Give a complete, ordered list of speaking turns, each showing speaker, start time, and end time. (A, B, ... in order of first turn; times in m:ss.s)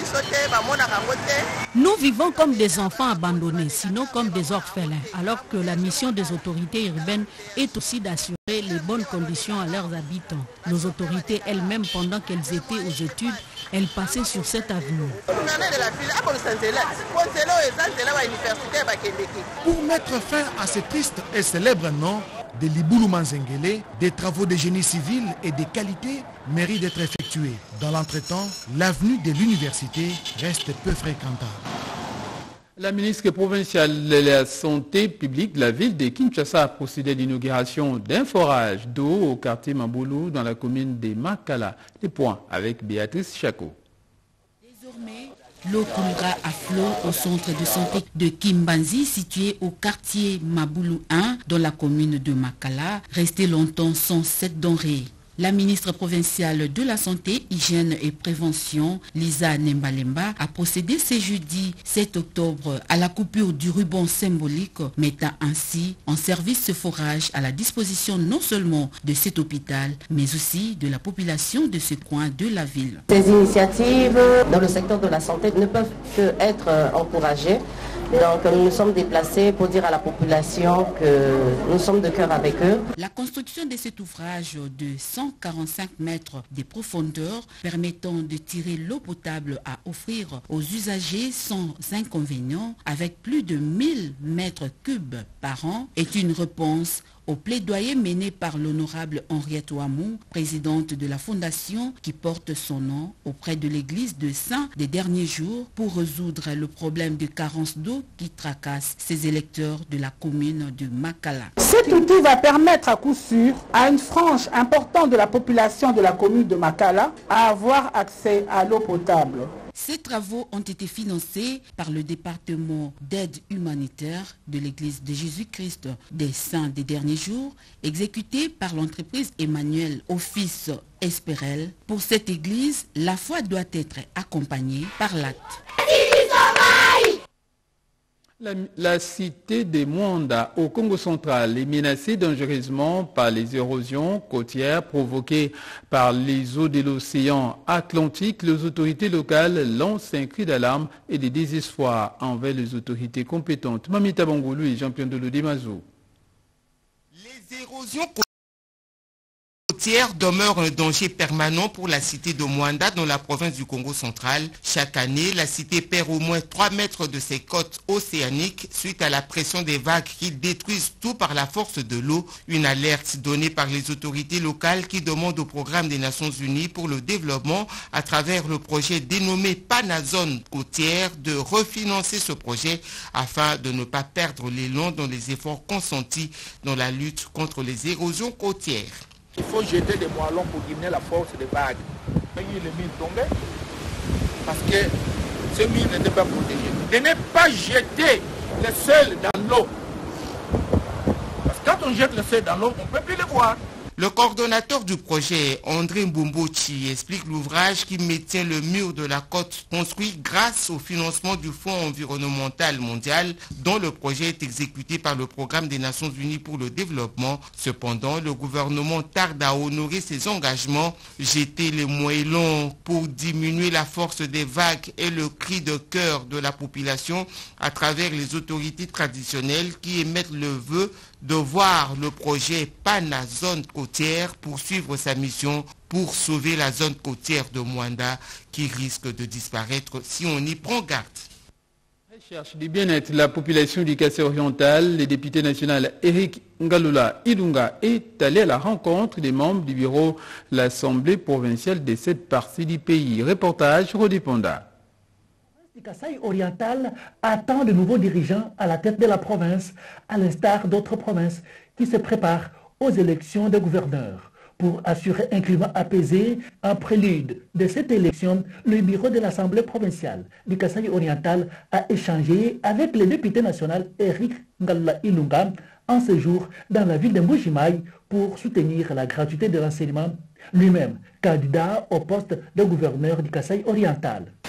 0:01.8-0:15.2 A
0:19.6-0:31.6 B
0:32.8-0:43.8 C
0:44.6-1:13.0 D
1:13.1-1:17.6 E
1:18.1-1:22.8 E
1:23.0-1:51.6 D
1:51.6-1:59.5 F
1:59.8-2:15.6 D
2:18.4-2:35.8 C
2:37.1-2:38.2 G
2:39.7-3:09.0 G
3:09.4-3:11.8 H
3:12.4-3:13.3 H
3:14.4-3:14.9 H
3:15.5-3:19.7 H
3:21.5-3:23.6 H
3:24.0-4:01.3 G
4:02.1-4:14.6 C
4:15.6-4:44.3 I